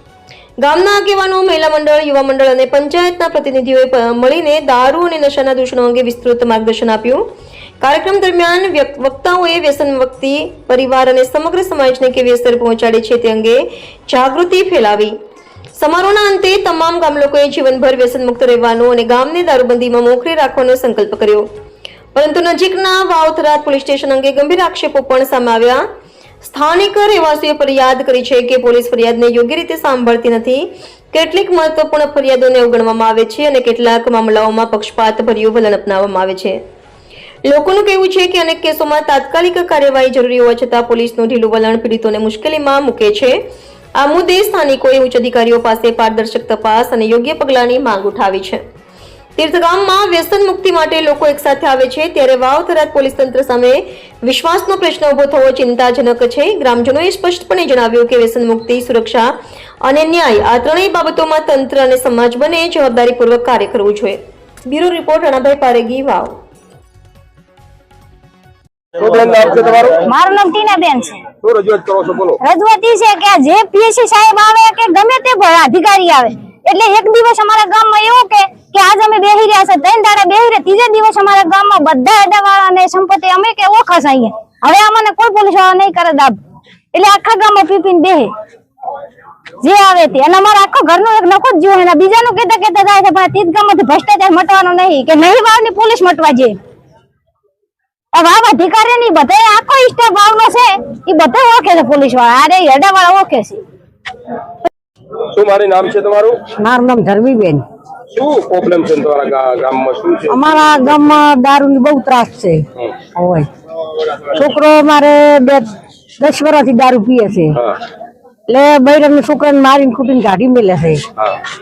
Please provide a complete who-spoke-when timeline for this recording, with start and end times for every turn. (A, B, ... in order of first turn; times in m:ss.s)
0:00.6-0:07.2 A
0:07.8-0:15.2 A
0:15.8-0:21.5 A
0:22.2-0:25.8 A
0:26.4-0:36.6 A
0:37.5-0:43.4 A
0:44.0-0:48.6 A
0:49.4-0:59.3 A
0:59.8-1:06.4 A
1:09.0-1:10.0 B
1:10.0-1:11.3 C
1:11.4-1:12.4 B
1:12.4-1:26.4 C
1:26.9-1:28.3 C
1:29.6-1:36.6 C
1:38.1-1:43.6 C
1:45.3-1:46.4 B
1:46.6-1:47.6 D
1:48.1-1:51.1 B
1:50.3-1:52.6 D
1:53.2-1:53.5 D
1:54.4-1:55.7 D
1:56.2-1:57.6 D
1:58.5-2:01.0 D